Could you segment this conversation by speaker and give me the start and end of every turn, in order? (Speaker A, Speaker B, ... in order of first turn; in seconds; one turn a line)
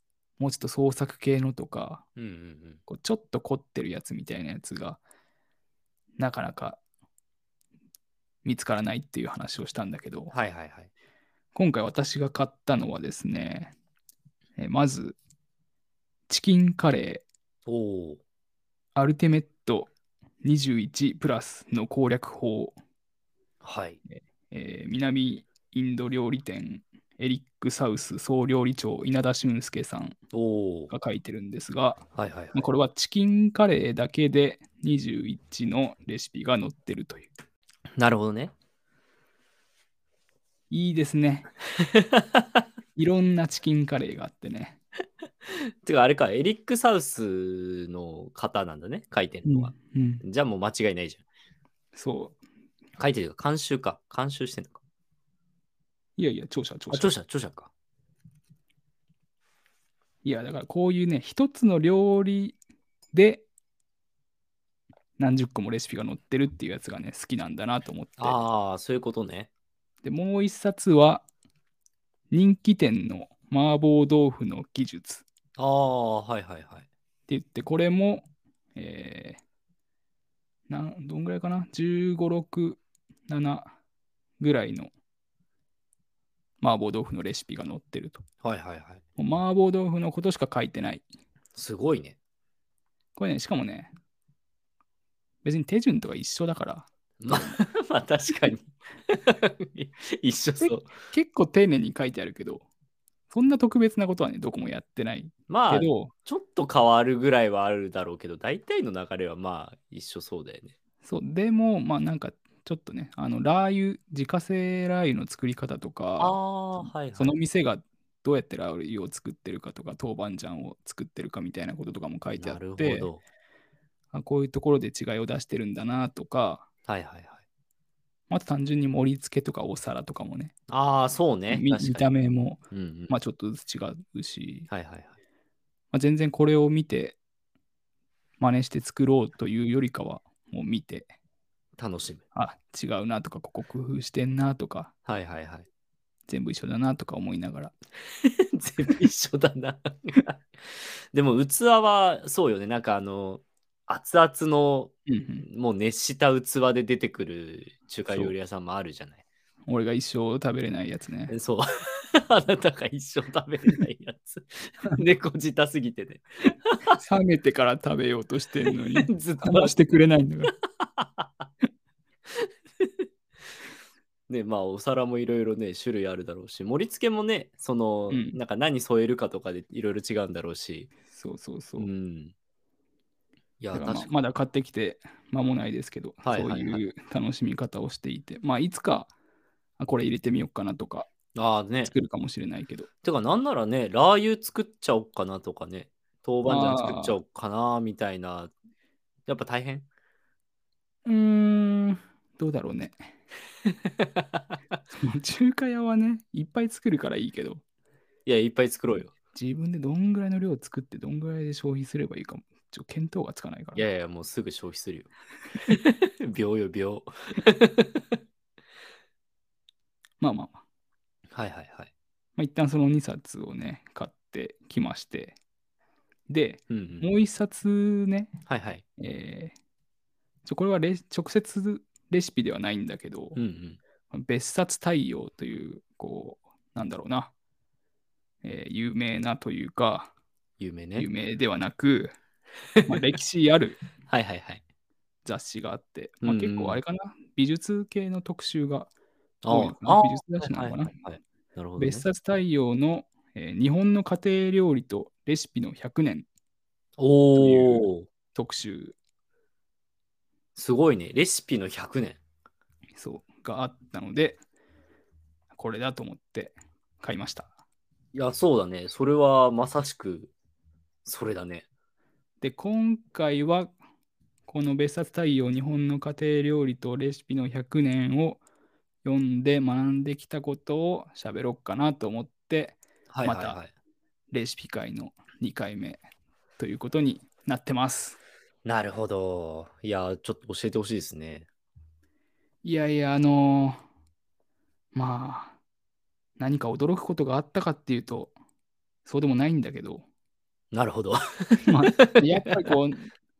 Speaker A: 0.4-2.0
Speaker B: 2.2-2.8
Speaker A: 2.9-5.0
Speaker A: 6.2-6.8
Speaker A: 8.4-10.3
Speaker B: 10.3-10.9
Speaker A: 11.5-13.7
Speaker A: 14.6-15.2
Speaker A: 16.3-17.2
Speaker B: 17.7-18.2
Speaker A: 18.9-19.9
Speaker A: 20.4-22.8
Speaker B: 23.6-24.0
Speaker A: 24.1-30.2
Speaker B: 30.3-30.9
Speaker A: 30.9-37.3
Speaker B: 32.1-32.6
Speaker B: 38.0-38.5
Speaker A: 40.7-41.5
Speaker B: 41.9-42.4
Speaker A: 43.0-44.8
Speaker B: 45.8-51.2
Speaker A: 49.4-50.2
Speaker A: 51.9-52.4
Speaker B: 53.0-54.8
Speaker A: 56.2-57.1
Speaker B: 56.9-57.7
Speaker A: 60.2-62.6
Speaker A: 63.1-63.4
Speaker A: 65.2-68.4
Speaker B: 68.2-69.5
Speaker A: 70.0-71.2
Speaker A: 72.3-75.2
Speaker B: 75.6-76.9
Speaker A: 77.3-79.4
Speaker A: 80.7-83.7
Speaker A: 84.4-84.9
Speaker A: 86.6-88.2
Speaker B: 88.4-89.0
Speaker A: 89.2-91.0
Speaker B: 91.5-92.2
Speaker A: 93.2-93.9
Speaker A: 95.4-97.6
Speaker B: 97.2-100.9
Speaker A: 100.6-102.6
Speaker A: 103.3-106.1
Speaker B: 105.5-110.7
Speaker A: 111.0-123.1
Speaker B: 116.2-117.3
Speaker B: 122.4-123.2
Speaker A: 124.1-126.7
Speaker B: 126.8-127.4
Speaker A: 128.3-130.5
Speaker B: 130.7-132.1
Speaker A: 131.5-134.7
Speaker B: 132.7-133.1
Speaker B: 134.7-135.2
Speaker A: 135.9-137.2
Speaker A: 138.4-141.1
Speaker B: 141.8-142.2
Speaker A: 142.3-144.9
Speaker B: 145.0-145.7
Speaker A: 146.3-147.7
Speaker B: 148.2-159.2
Speaker A: 155.1-155.4
Speaker A: 159.7-161.3
Speaker B: 161.3-166.9
Speaker A: 166.9-170.5
Speaker B: 168.7-169.7
Speaker B: 170.8-171.5
Speaker B: 172.3-172.9
Speaker B: 174.3-180.9
Speaker A: 178.1-178.4
Speaker A: 181.1-181.9
Speaker B: 181.8-182.3
Speaker B: 183.6-184.1
Speaker A: 183.7-189.1
Speaker B: 186.2-186.8
Speaker A: 189.8-191.1
Speaker B: 191.3-191.9
Speaker A: 191.9-192.9
Speaker B: 193.0-198.5
Speaker A: 196.5-197.2
Speaker B: 199.3-199.9
Speaker A: 201.0-203.1
Speaker B: 204.0-204.5
Speaker A: 204.9-207.6
Speaker B: 208.2-209.1
Speaker A: 209.3-213.8
Speaker B: 213.7-215.1
Speaker B: 215.7-218.0
Speaker A: 220.2-220.6
Speaker B: 221.3-221.9
Speaker A: 222.3-225.3
Speaker A: 226.3-228.4
Speaker B: 226.7-227.1
Speaker B: 228.5-228.8
Speaker A: 229.0-229.5
Speaker A: 230.4-233.4
Speaker B: 233.3-233.8
Speaker A: 234.1-237.3
Speaker A: 238.4-240.1
Speaker B: 240.6-241.1
Speaker A: 241.0-242.2
Speaker A: 242.8-243.8
Speaker B: 244.1-244.6
Speaker A: 245.2-248.9
Speaker B: 246.2-246.8
Speaker B: 249.4-252.0
Speaker A: 249.5-250.9
Speaker A: 251.8-256.2
Speaker B: 257.0-258.1
Speaker A: 257.4-258.9
Speaker B: 260.6-262.2
Speaker A: 263.0-264.4
Speaker A: 265.5-267.5
Speaker B: 268.1-270.3
Speaker B: 271.0-271.6
Speaker A: 272.4-273.7
Speaker A: 274.5-278.4
Speaker A: 279.0-283.6
Speaker B: 283.1-283.7
Speaker A: 284.3-286.0
Speaker A: 286.6-288.2
Speaker B: 288.6-291.5
Speaker A: 292.6-293.8
Speaker A: 294.9-295.5
Speaker A: 296.4-298.3
Speaker A: 299.1-300.0
Speaker B: 300.7-302.7
Speaker A: 301.6-303.1